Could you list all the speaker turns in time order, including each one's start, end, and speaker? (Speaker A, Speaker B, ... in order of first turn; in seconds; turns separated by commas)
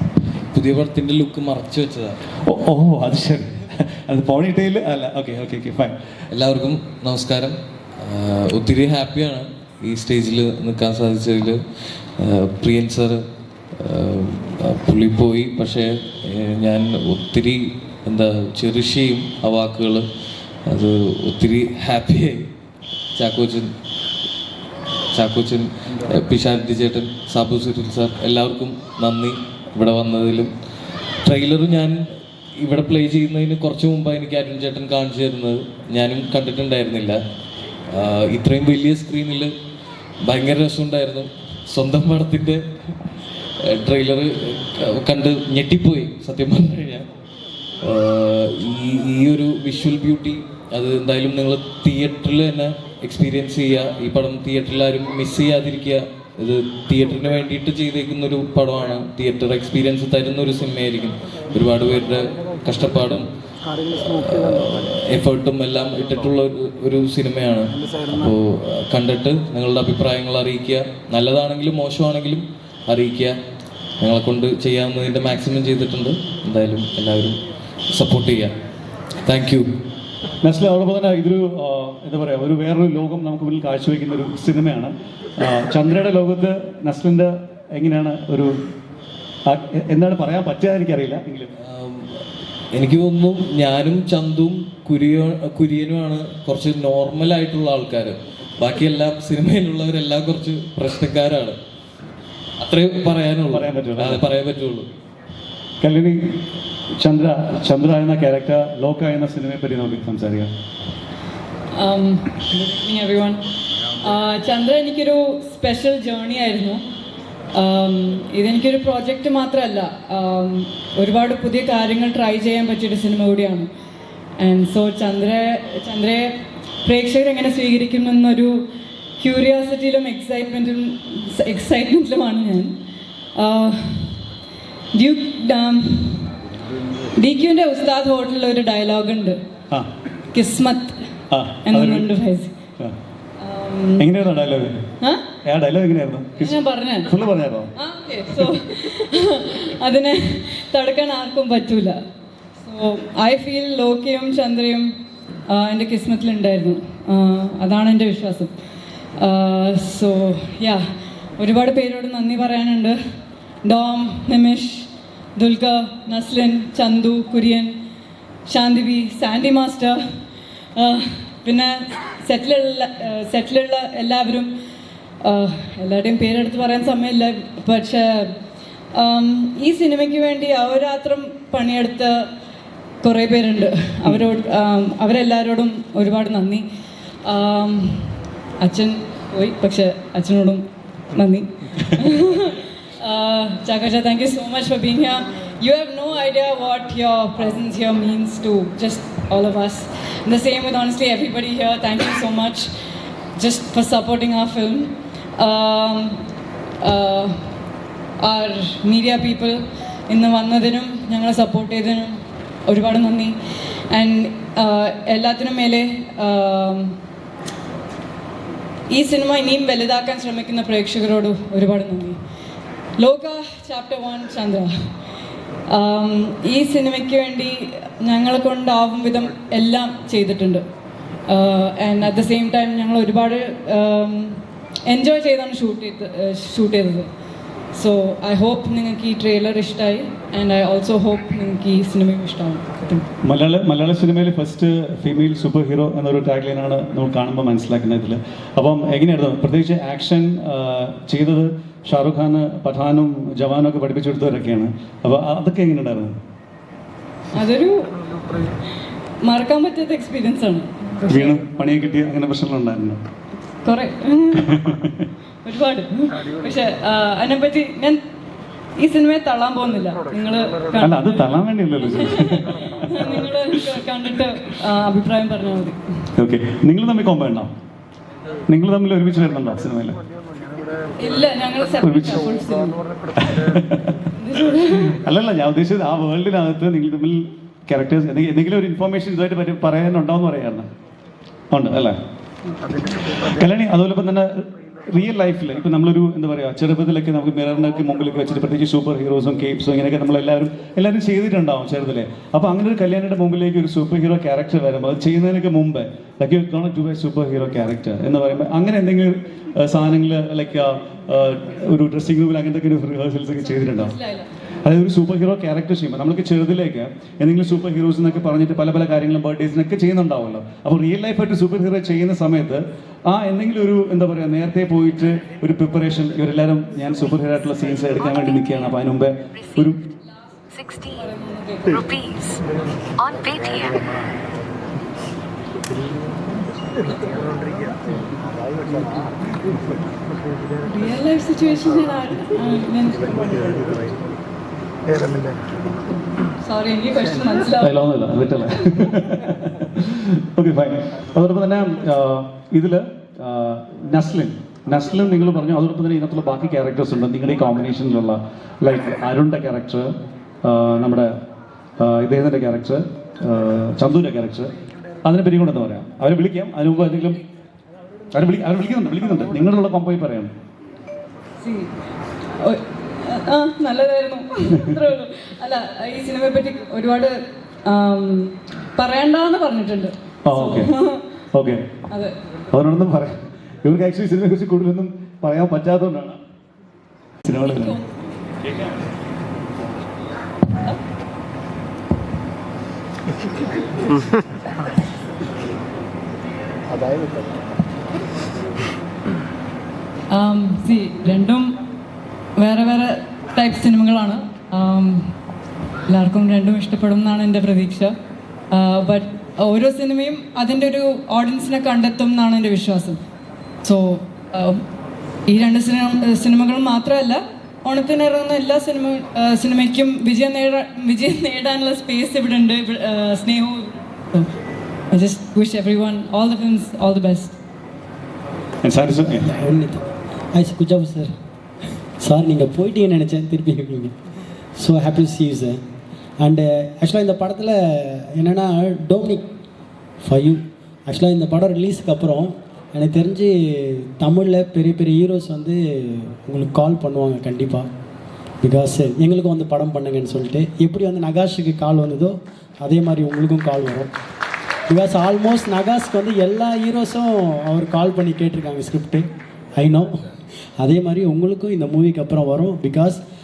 Speaker A: 0.5-2.2, Speaker B: 2.5-5.9, Speaker A: 6.3-11.6, Speaker A: 12.2-13.2, Speaker A: 13.8-20.1, Speaker A: 20.7-22.5, Speaker A: 23.2-23.7, Speaker A: 25.1-30.5, Speaker A: 31.2-32.0, Speaker A: 32.6-37.2, Speaker A: 37.9-39.5, Speaker A: 40.2-42.6, Speaker A: 43.6-47.0, Speaker A: 47.8-63.3, Speaker A: 63.9-73.3, Speaker A: 74.0-77.4, Speaker A: 77.9-78.5, Speaker A: 79.2-79.7, Speaker B: 80.4-88.6, Speaker B: 89.5-91.5, Speaker A: 91.6-101.6, Speaker A: 102.6-104.9, Speaker B: 103.5-104.2, Speaker B: 105.8-106.4, Speaker B: 107.0-110.5, Speaker C: 111.8-113.4, Speaker C: 114.0-116.8, Speaker C: 117.5-123.7, Speaker C: 124.4-128.7, Speaker C: 129.2-132.8, Speaker C: 133.4-134.2, Speaker C: 134.9-136.3, Speaker C: 137.2-139.4, Speaker C: 140.3-141.0, Speaker B: 141.3-142.1, Speaker C: 141.7-142.5, Speaker C: 143.4-144.1, Speaker B: 144.0-144.8, Speaker B: 145.4-147.7, Speaker C: 146.4-147.1, Speaker C: 147.8-152.0, Speaker C: 152.6-154.9, Speaker C: 155.5-158.5, Speaker C: 159.2-160.8, Speaker C: 161.4-163.0, Speaker C: 163.6-167.7, Speaker C: 168.5-170.0, Speaker C: 170.8-174.5, Speaker C: 175.2-178.3, Speaker C: 178.9-182.3, Speaker C: 183.0-186.7, Speaker C: 187.2-190.6, Speaker C: 191.1-202.7, Speaker C: 203.3-206.2, Speaker C: 206.8-207.4, Speaker C: 208.2-212.2, Speaker C: 212.7-213.3, Speaker C: 213.9-216.9, Speaker C: 218.9-222.2, Speaker C: 223.0-224.7, Speaker C: 225.7-230.6, Speaker C: 231.3-237.1, Speaker C: 237.7-243.1, Speaker B: 243.2-256.1, Speaker C: 257.3-257.9, Speaker C: 259.2-261.0, Speaker B: 261.1-263.0, Speaker C: 263.6-264.6, Speaker B: 264.4-265.1, Speaker C: 265.4-268.0, Speaker C: 268.8-271.3, Speaker B: 270.8-273.1, Speaker C: 271.8-275.8, Speaker B: 276.2-277.5, Speaker B: 278.5-280.0, Speaker C: 281.0-282.8, Speaker B: 281.8-282.3, Speaker B: 283.2-284.0, Speaker C: 284.2-285.0, Speaker B: 284.5-290.7, Speaker B: 291.5-291.9, Speaker B: 293.2-313.9, Speaker C: 313.4-314.3, Speaker B: 314.6-329.8, Speaker C: 330.7-332.4, Speaker C: 340.6-343.7, Speaker C: 346.4-347.8, Speaker B: 347.6-359.9, Speaker B: 360.4-361.1, Speaker B: 361.8-364.5, Speaker B: 365.0-367.2, Speaker B: 368.1-370.3, Speaker C: 371.4-371.7, Speaker C: 372.4-381.0, Speaker B: 380.3-380.7, Speaker B: 381.3-381.6, Speaker B: 382.5-386.2, Speaker B: 387.2-387.8, Speaker C: 387.3-387.8, Speaker C: 400.1-401.5, Speaker C: 402.4-405.1, Speaker C: 405.9-407.9, Speaker C: 408.5-413.0, Speaker C: 413.6-414.6, Speaker C: 415.3-424.3, Speaker C: 424.9-427.4, Speaker B: 428.6-429.3, Speaker D: 429.2-429.8, Speaker D: 430.3-431.1, Speaker D: 432.0-433.9, Speaker D: 434.6-435.6, Speaker D: 436.2-439.2, Speaker D: 440.0-447.7, Speaker D: 448.4-453.9, Speaker D: 454.7-459.0, Speaker D: 459.6-459.9, Speaker D: 460.6-463.0